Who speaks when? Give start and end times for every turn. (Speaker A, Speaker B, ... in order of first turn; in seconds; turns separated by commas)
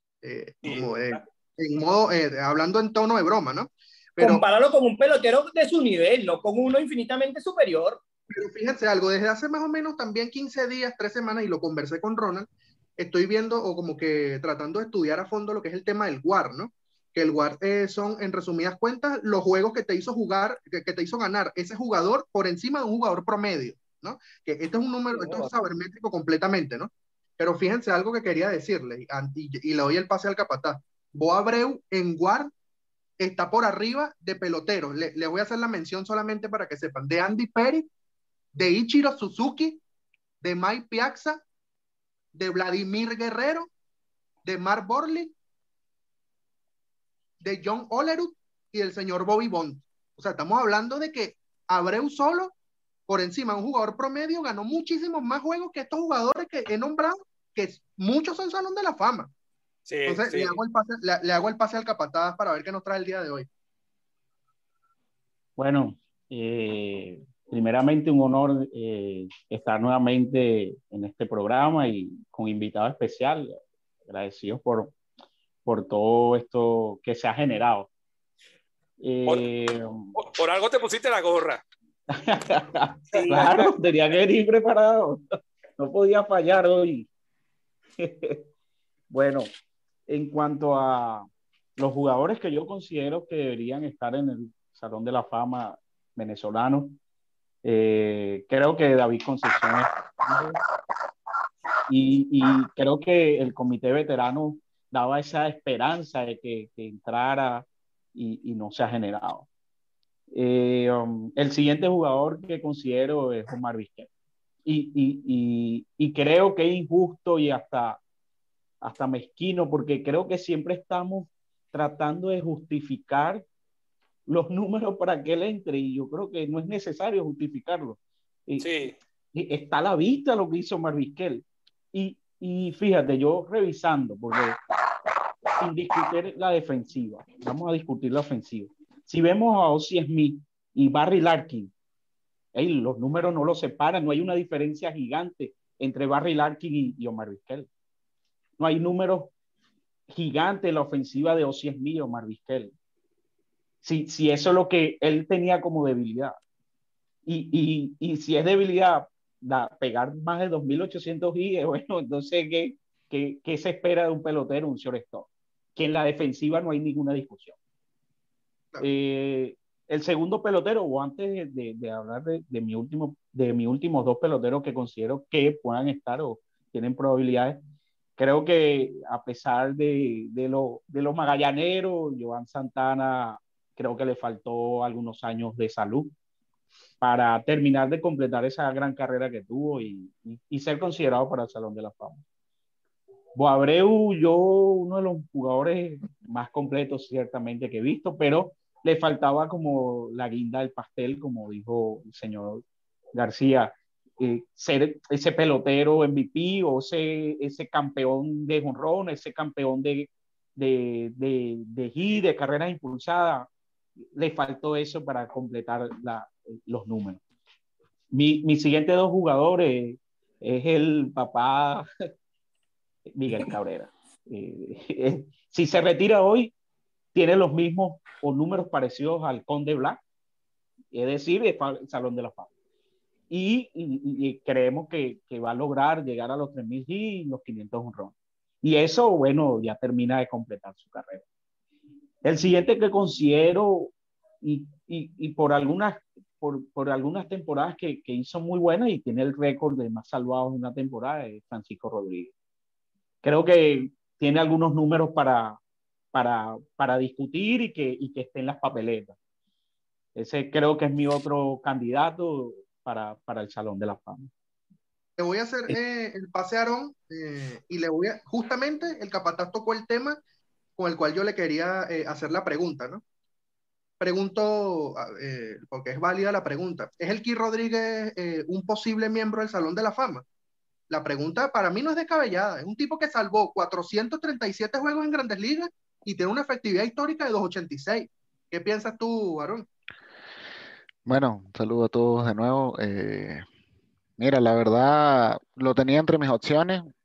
Speaker A: 0.2-4.4, Speaker B: 0.6-1.2, Speaker C: 4.2-8.0, Speaker A: 8.3-32.5, Speaker B: 25.2-25.4, Speaker A: 33.2-37.9, Speaker A: 38.5-39.8, Speaker A: 40.4-41.4, Speaker A: 42.4-43.7, Speaker A: 44.5-45.3, Speaker A: 47.4-52.5, Speaker A: 53.1-59.3, Speaker B: 59.9-60.6, Speaker A: 60.1-63.5, Speaker D: 65.6-74.9, Speaker D: 75.7-77.9, Speaker D: 79.0-80.2, Speaker B: 80.2-81.6, Speaker D: 82.1-87.1, Speaker B: 83.1-83.7, Speaker D: 88.0-88.4, Speaker D: 89.1-89.5, Speaker D: 90.1-97.0, Speaker D: 97.6-100.6, Speaker D: 101.9-109.5, Speaker D: 110.3-114.1, Speaker D: 114.7-118.0, Speaker D: 118.8-123.4, Speaker D: 124.3-128.7, Speaker B: 128.6-128.9, Speaker D: 129.3-134.6, Speaker D: 135.6-141.7, Speaker D: 142.6-147.7, Speaker D: 148.6-149.3, Speaker D: 150.1-152.7, Speaker D: 153.8-156.4, Speaker D: 157.3-167.6, Speaker D: 168.8-177.6, Speaker D: 178.2-186.1, Speaker D: 187.0-192.2, Speaker D: 193.3-202.6, Speaker D: 203.2-213.5, Speaker D: 214.2-217.2, Speaker D: 218.1-221.9, Speaker D: 223.2-226.5, Speaker D: 227.1-230.0, Speaker D: 230.9-232.5, Speaker D: 233.3-241.2, Speaker D: 242.2-252.3, Speaker D: 253.2-255.6, Speaker D: 256.1-259.2, Speaker D: 260.2-264.3, Speaker A: 265.2-270.2, Speaker A: 270.8-273.0, Speaker A: 274.0-280.2, Speaker A: 280.9-289.7, Speaker E: 291.1-293.4, Speaker E: 294.2-296.9